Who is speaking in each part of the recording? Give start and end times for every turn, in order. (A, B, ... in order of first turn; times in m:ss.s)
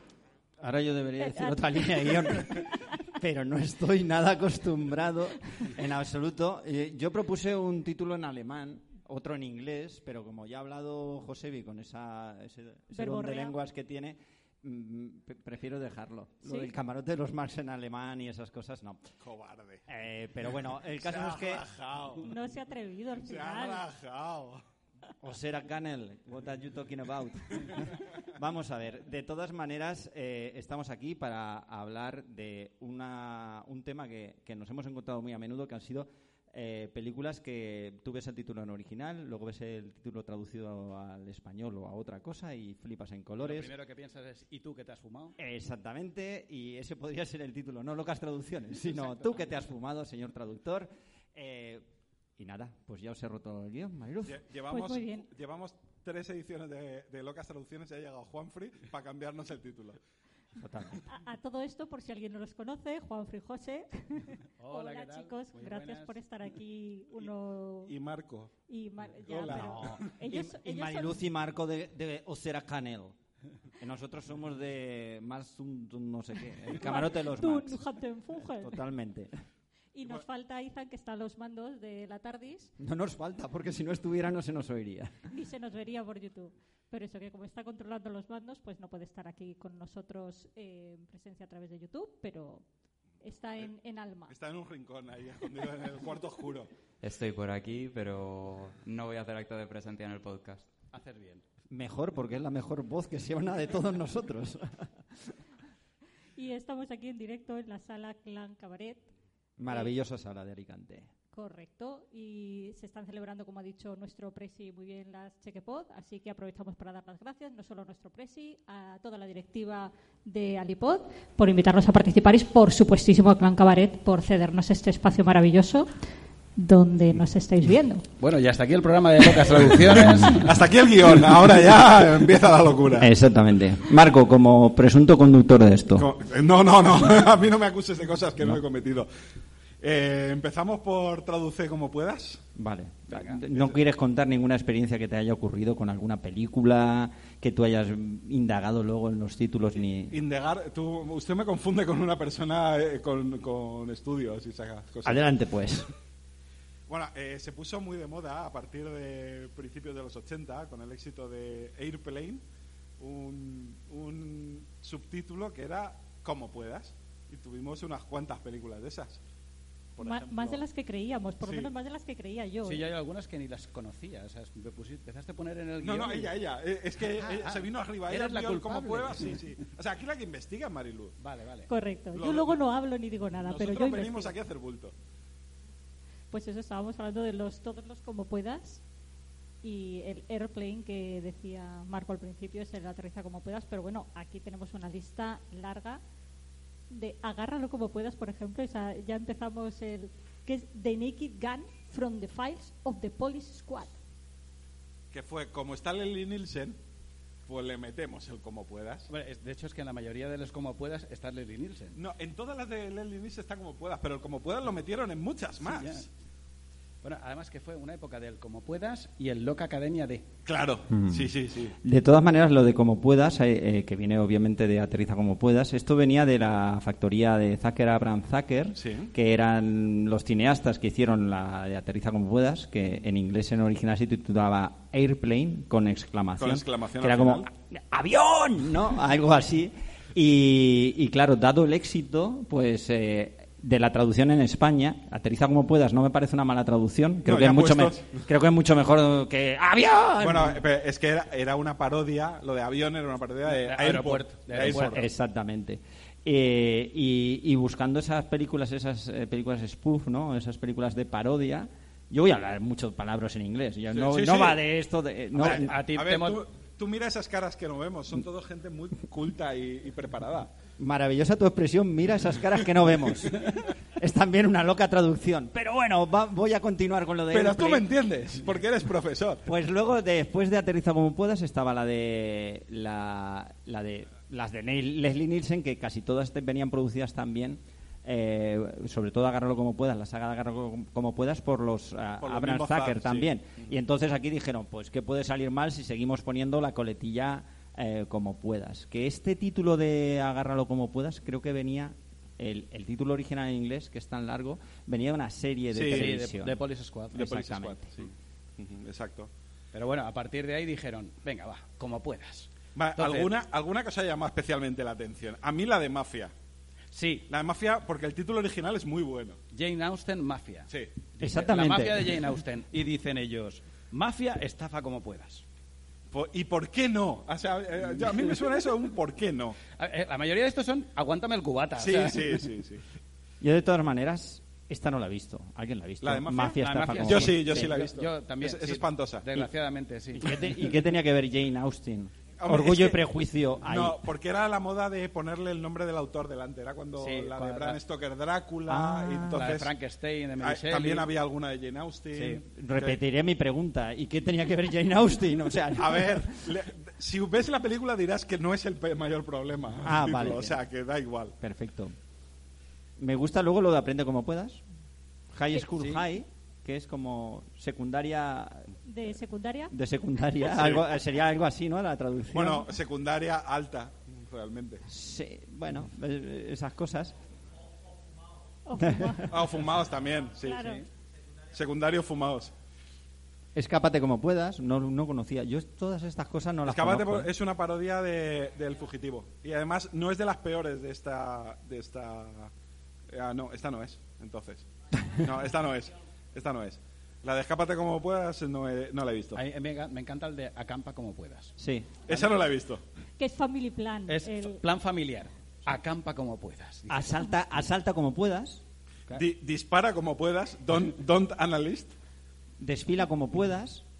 0:00.6-0:02.7 A
0:01.2-0:02.6 B
0:03.2-0:19.1 A
0:12.9-0:13.5 B
0:16.4-0:16.7 B
0:19.2-0:19.8 C
0:19.9-0:21.6 A
0:21.0-0:22.5 C
0:22.2-0:23.8 B
0:23.2-0:24.6 C
0:25.2-0:43.7 A
0:43.4-0:45.4 D
0:45.4-0:51.9 A
0:52.4-0:54.4 A
0:54.3-1:00.0 C
0:54.7-0:55.3 B
1:00.6-1:01.0 A
1:01.1-1:07.9 B
1:04.6-1:06.2 D
1:07.9-1:08.5 C
1:08.7-1:11.2 B
1:09.1-1:10.0 C
1:09.5-1:13.2 A
1:13.8-1:17.8 A
1:16.8-1:18.8 B
1:18.6-1:19.3 A
1:19.9-1:22.7 B
1:22.8-1:25.2 A
1:25.3-1:32.6 B
1:33.2-1:34.3 B
1:34.3-1:36.7 C
1:37.0-1:40.7 E
1:40.9-1:41.4 D
1:41.7-1:44.9 A
1:46.4-1:49.1 B
1:49.6-1:51.1 A
1:51.3-2:05.9 B
2:06.6-2:08.0 B
2:08.2-2:10.4 D
2:10.4-2:13.1 C
2:13.0-2:16.1 A
2:16.0-2:19.1 C
2:19.8-2:22.4 C
2:22.6-2:30.2 A
2:23.4-2:23.8 C
2:30.1-2:35.2 C
2:35.0-2:35.9 A
2:36.9-2:42.4 C
2:43.0-2:49.2 C
2:50.0-2:50.6 C
2:50.0-2:52.9 B
2:51.4-2:51.7 C
2:52.6-2:56.4 D
2:55.8-3:01.2 C
2:57.1-2:59.4 D
3:01.2-3:01.7 D
3:01.7-3:04.3 B
3:02.2-3:02.6 C
3:03.4-3:04.9 C
3:06.3-3:08.8 B
3:09.6-3:16.0 B
3:16.9-3:24.0 B
3:25.1-3:26.8 C
3:27.5-3:29.1 C
3:29.1-3:32.0 D
3:32.0-3:36.1 C
3:35.6-3:36.1 D
3:37.0-3:40.2 D
3:40.5-3:41.8 C
3:41.0-3:41.3 A
3:41.8-4:10.6 A
3:48.8-3:49.1 C
3:56.4-3:57.5 C
4:07.3-4:08.0 C
4:10.2-4:15.0 C
4:13.5-4:15.1 D
4:14.6-4:25.8 A
4:23.9-4:24.6 C
4:25.4-4:30.5 C
4:25.4-4:26.4 D
4:30.8-4:33.5 A
4:34.0-4:37.9 A
4:37.3-4:39.5 C
4:39.5-5:06.6 A
4:52.2-4:53.7 C
5:05.7-5:06.2 C
5:05.8-5:07.5 D
5:07.1-5:07.9 A
5:07.2-5:09.3 C
5:09.7-5:13.3 D
5:12.8-5:16.3 C
5:16.9-5:17.2 D
5:17.3-5:19.4 C
5:19.5-5:25.4 D
5:21.2-5:22.2 A
5:26.1-5:29.6 C
5:29.8-5:32.5 D
5:31.8-5:32.8 C
5:33.4-5:37.7 A
5:36.0-5:39.5 C
5:36.4-5:40.6 D
5:40.1-5:44.1 A
5:42.4-5:43.0 C
5:43.6-5:49.7 C
5:47.0-5:47.8 D
5:48.7-5:49.5 A
5:49.3-5:51.1 D
5:50.4-5:53.0 C
5:52.1-5:52.4 D
5:52.5-5:56.5 A
5:55.8-6:01.4 C
5:59.8-6:00.5 A
6:00.2-6:00.5 D
6:01.4-6:01.9 A
6:03.0-6:04.6 A
6:05.3-6:08.7 A
6:08.9-6:09.7 B
6:09.7-6:12.7 A
6:10.4-6:10.8 C
6:12.3-6:14.8 C
6:14.9-6:17.2 A
6:18.7-6:19.4 B
6:18.8-6:19.3 A
6:19.3-6:20.8 C
6:20.4-6:20.8 B
6:21.5-6:22.5 C
6:23.6-6:27.3 A
6:26.7-6:32.5 C
6:33.1-6:39.4 C
6:39.4-6:41.6 D
6:41.6-6:41.9 A
6:42.1-6:42.8 C
6:43.2-6:44.6 B
6:44.1-6:47.2 D
6:46.9-6:48.6 A
6:49.2-6:51.9 C
6:52.6-6:53.8 A